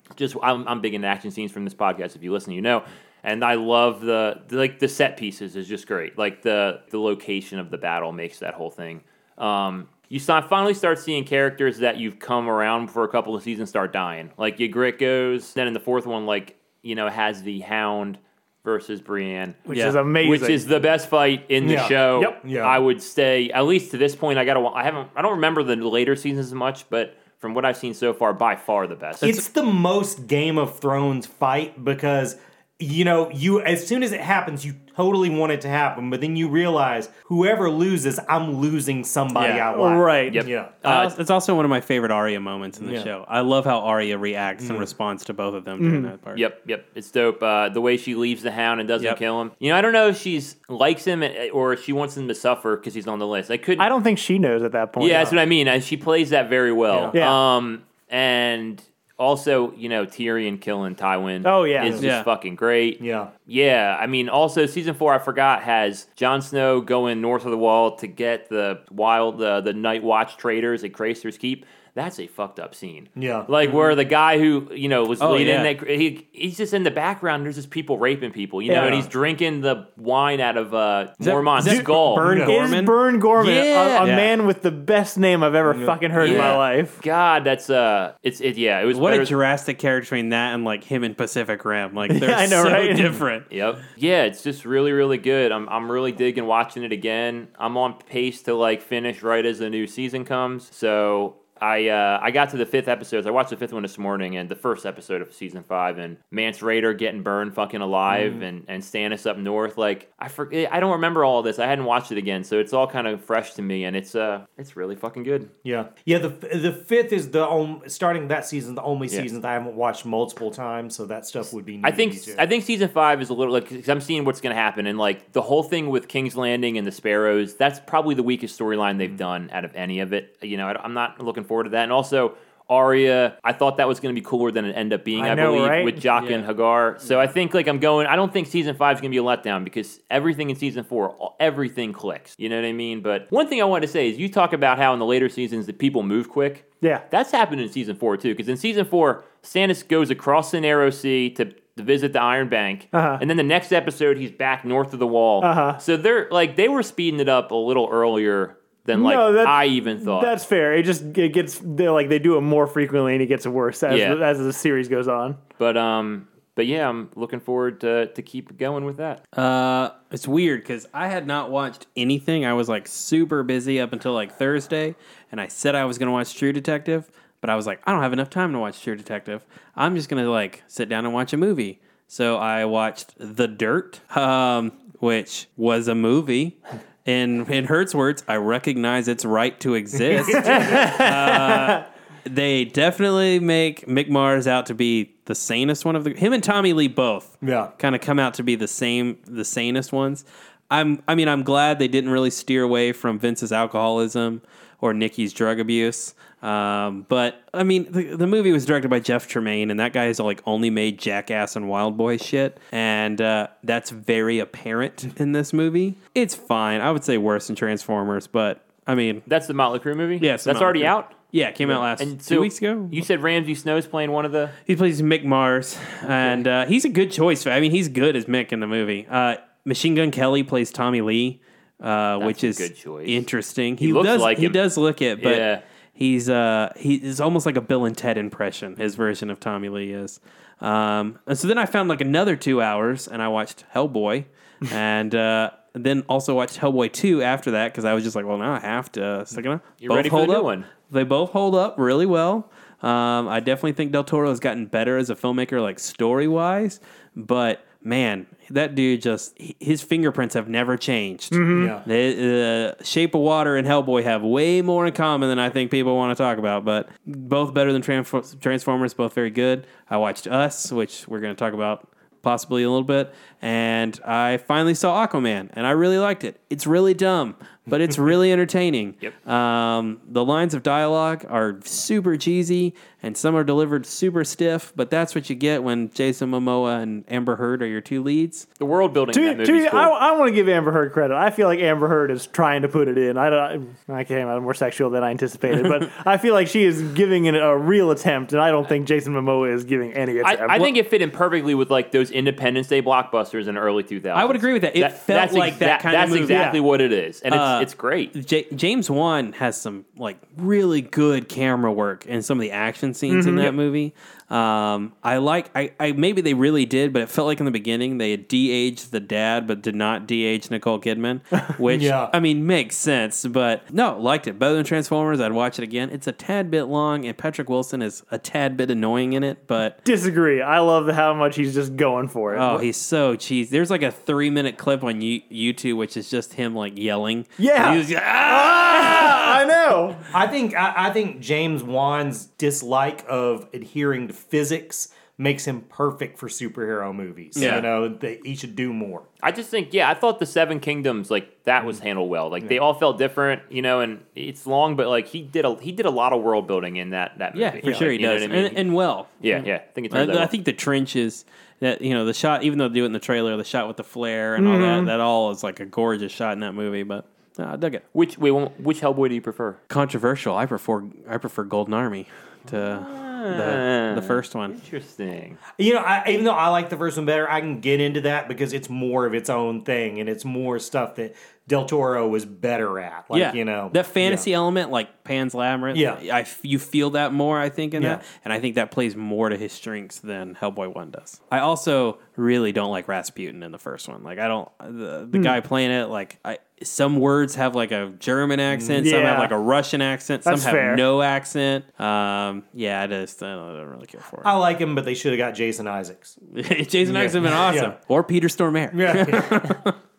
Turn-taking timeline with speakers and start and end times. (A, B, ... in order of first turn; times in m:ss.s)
0:00.1-0:19.6 A
0:19.7-0:20.6 B
0:19.7-0:20.0 C
0:20.2-0:29.4 A
0:21.6-0:22.8 D
0:29.2-0:40.7 D
0:39.3-0:39.7 C
0:39.7-0:40.4 B
0:40.3-0:41.1 A
0:40.8-0:46.4 C
0:42.8-0:43.1 D
0:44.6-0:44.9 D
0:45.8-0:46.1 B
0:46.3-0:53.9 A
0:53.8-0:55.3 B
0:55.0-1:22.3 A
0:56.9-0:57.2 D
0:57.1-0:57.4 B
1:01.4-1:02.0 B
1:01.8-1:02.1 D
1:02.0-1:02.3 C
1:03.0-1:03.3 D
1:13.2-1:13.5 D
1:15.2-1:15.7 C
1:18.7-1:19.0 B
1:18.7-1:19.1 D
1:21.2-1:22.9 C
1:22.2-1:22.5 D
1:22.4-1:27.0 B
1:23.4-1:24.1 A
1:24.0-1:24.3 C
1:25.6-1:26.6 D
1:26.2-1:29.3 A
1:26.2-1:26.5 C
1:28.9-1:33.5 C
1:32.1-1:33.2 B
1:33.5-1:55.5 A
1:48.1-1:48.4 D
1:55.6-2:02.4 D
2:01.8-2:40.3 A
2:15.2-2:16.0 B
2:16.1-2:16.5 C
2:32.9-2:33.2 B
2:35.4-2:35.8 B
2:38.9-2:45.4 B
2:43.9-2:44.2 A
2:45.6-2:49.2 A
2:49.3-3:39.2 C
3:10.0-3:11.0 D
3:10.6-3:11.0 B
3:17.4-3:17.7 D
3:39.3-3:41.1 A
3:40.2-3:43.0 C
3:41.7-3:44.6 A
3:44.6-4:48.5 C
3:46.1-3:46.4 A
3:52.2-3:53.2 A
3:53.8-3:54.6 A
3:55.2-3:55.6 A
4:09.8-4:10.7 A
4:21.3-4:21.7 B
4:21.5-4:21.8 D
4:48.6-4:49.9 A
4:49.1-5:00.6 B
5:00.2-5:08.1 A
5:04.1-5:06.5 C
5:06.3-5:06.6 B
5:07.3-5:29.8 C
5:13.1-5:13.5 B
5:21.6-5:22.1 D
5:29.8-5:32.6 B
5:32.3-5:39.4 C
5:37.4-5:40.1 B
5:40.0-5:49.1 D
5:47.4-5:47.6 C
5:47.4-5:47.6 A
5:49.2-5:58.6 A
5:57.3-6:07.8 C
5:59.2-6:00.3 A
6:04.4-6:04.9 B
6:07.9-6:09.6 A
6:09.7-6:14.6 C
6:12.5-6:15.4 A
6:15.6-6:24.3 D
6:23.1-6:44.3 C
6:25.7-6:26.0 D
6:27.8-6:28.0 D
6:35.1-6:35.4 B
6:38.5-6:38.8 D
6:38.8-6:39.3 B
6:40.2-6:40.8 B
6:44.2-6:46.2 D
6:46.3-6:49.7 C
6:46.8-6:47.8 D
6:48.7-6:49.6 D